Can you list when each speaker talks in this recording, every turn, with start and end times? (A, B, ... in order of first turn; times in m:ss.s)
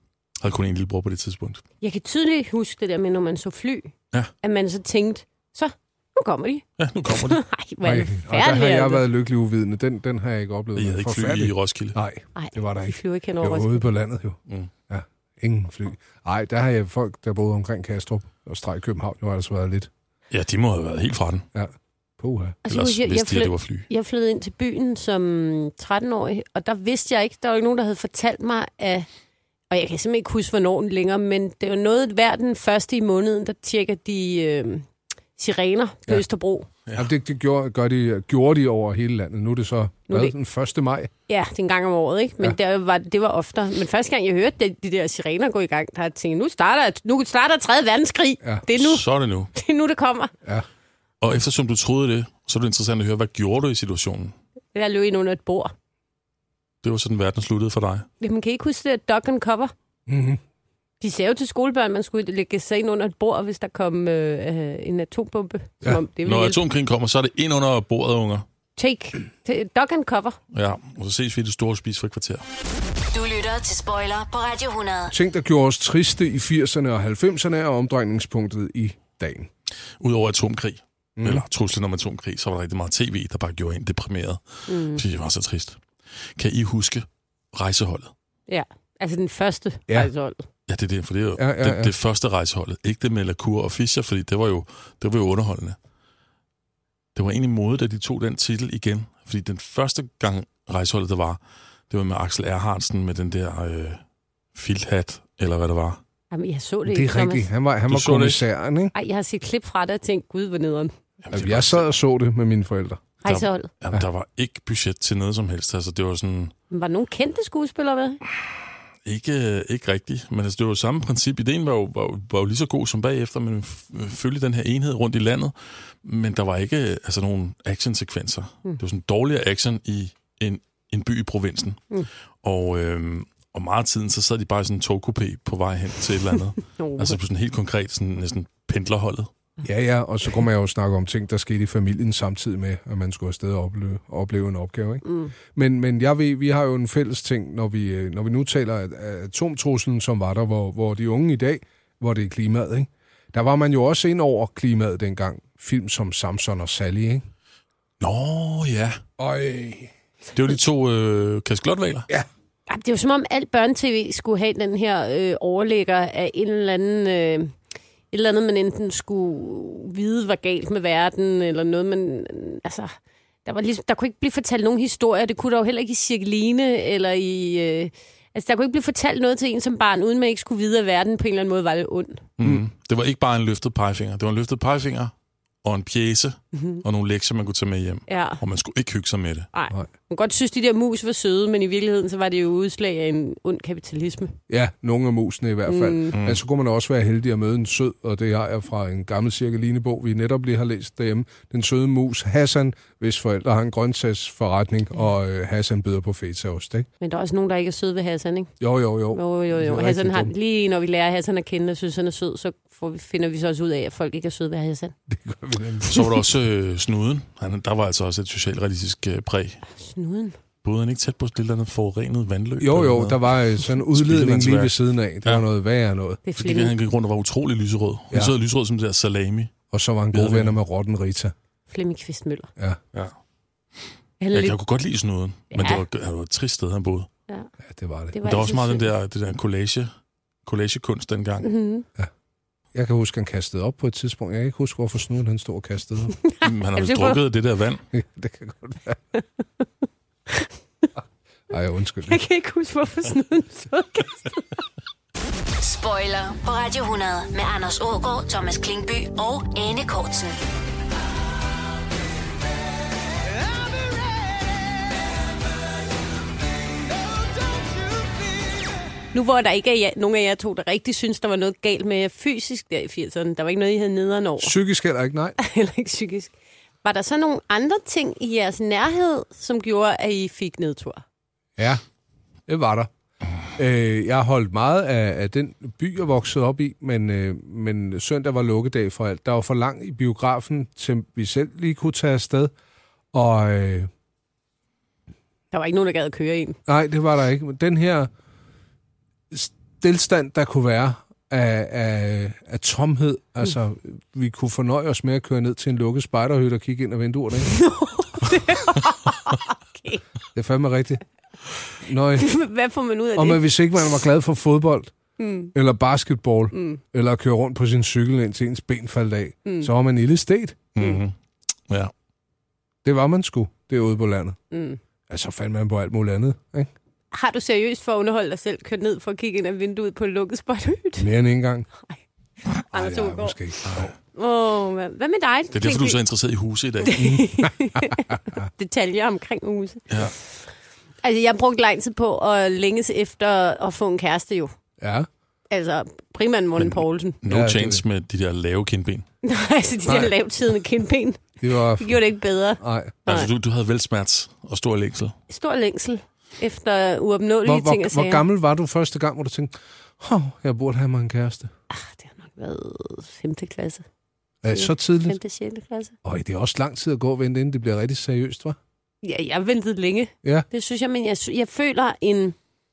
0:00.4-0:01.6 A
0:01.8-0:09.0 B
0:06.8-0:07.4 A
0:07.8-0:19.9 C
0:10.8-0:12.0 A
0:12.4-0:13.8 B
0:20.3-0:21.5 A
0:21.5-0:22.6 C
0:22.6-0:29.1 B
0:22.7-0:23.9 A
0:29.7-0:36.7 B
0:37.0-0:41.1 C
0:40.1-0:40.3 B
0:41.3-0:49.0 B
0:48.7-0:49.5 A
0:49.6-0:50.3 B
0:51.2-0:54.4 A
0:54.8-0:55.7 B
0:56.8-0:58.1 A
0:58.2-0:59.7 B
1:00.1-1:00.4 C
1:01.0-1:06.6 B
1:06.2-1:08.4 A
1:08.8-1:10.4 B
1:10.5-1:12.4 A
1:13.1-1:15.1 D
1:15.1-1:19.5 C
1:20.0-1:25.8 A
1:21.2-1:21.4 C
1:24.7-1:25.0 B
1:26.4-1:28.1 A
1:28.5-1:30.4 B
1:30.7-1:35.8 A
1:31.4-1:31.9 C
1:37.2-1:41.4 A
1:41.9-1:44.0 A
1:44.6-1:46.0 A
1:46.3-1:47.5 B
1:46.9-1:48.9 C
1:47.9-1:48.5 A
1:48.9-1:50.9 B
1:51.2-1:51.8 A
1:51.3-1:53.1 C
1:53.2-1:53.7 B
1:53.2-1:56.5 A
1:56.7-1:58.2 B
1:59.0-2:11.8 A
2:12.4-2:19.3 A
2:16.8-2:17.2 B
2:19.6-2:37.2 C
2:25.0-2:25.3 B
2:38.0-2:39.0 A
2:39.2-2:39.9 C
2:40.4-2:42.1 A
2:42.7-2:47.5 B
2:48.1-2:52.9 B
2:53.4-3:02.2 B
3:02.4-3:05.1 A
3:05.6-3:09.5 A
3:06.6-3:06.8 B
3:08.1-3:08.4 B
3:09.5-3:14.4 B
3:14.5-3:26.9 C
3:15.7-3:16.1 B
3:16.2-3:16.4 A
3:27.0-3:28.5 B
3:28.6-3:30.3 C
3:29.1-3:35.0 B
3:35.1-3:36.1 C
3:35.9-3:39.6 A
3:39.7-3:40.4 B
3:40.6-3:45.4 A
3:42.6-3:46.2 C
3:46.3-3:46.7 B
3:46.4-3:49.5 A
3:49.7-3:51.3 C
3:50.1-3:50.6 A
3:51.7-3:52.5 B
3:54.2-3:54.6 B
3:54.3-3:57.1 A
3:55.5-3:55.8 B
3:57.6-3:58.2 C
3:58.1-3:58.9 B
3:58.2-3:59.9 A
4:00.5-4:01.5 A
4:01.4-4:01.9 B
4:02.7-4:06.2 C
4:06.3-4:07.2 B
4:06.4-4:07.8 A
4:07.9-4:09.0 C
4:11.5-4:12.2 C
4:12.1-4:14.6 B
4:15.6-4:20.4 D
4:29.1-4:34.5 B
4:34.4-4:35.4 C
4:35.4-4:36.3 B
4:36.8-4:41.0 B
4:41.6-4:41.8 C
4:42.5-4:42.9 C
4:43.6-4:52.5 C
4:53.1-4:53.9 C
4:55.5-4:56.6 B
4:56.7-4:58.1 C
4:59.3-5:07.5 C
5:07.5-5:10.0 B
5:10.4-5:11.0 C
5:11.8-5:12.3 C
5:12.2-5:13.9 B
5:13.2-5:14.9 C
5:15.2-5:15.5 B
5:15.5-5:20.7 C
5:16.5-5:16.8 B
5:19.4-5:19.7 B
5:20.8-5:21.1 A
5:22.8-5:24.4 C
5:24.5-5:24.8 B
5:25.1-5:26.7 C
5:27.1-5:31.1 B
5:31.0-5:31.7 C
5:32.7-5:33.4 B
5:32.7-5:33.9 C
5:33.7-5:33.9 A
5:34.1-5:36.0 B
5:35.5-5:37.0 A
5:36.8-5:40.4 B
5:37.0-5:38.4 C
5:39.9-5:40.1 A
5:41.0-5:44.5 B
5:44.8-5:45.1 C
5:45.5-5:47.2 B
5:47.2-5:49.1 A
5:47.3-5:47.8 C
5:49.2-5:53.3 B
5:49.9-5:50.1 C
5:51.4-5:52.0 C
5:52.6-5:53.0 C
5:53.1-5:55.2 A
5:55.3-5:58.2 B
5:57.4-6:01.5 C
6:01.7-6:03.8 B
6:04.4-6:05.2 C
6:04.5-6:06.0 B
6:06.0-6:08.6 C
6:09.0-6:12.4 B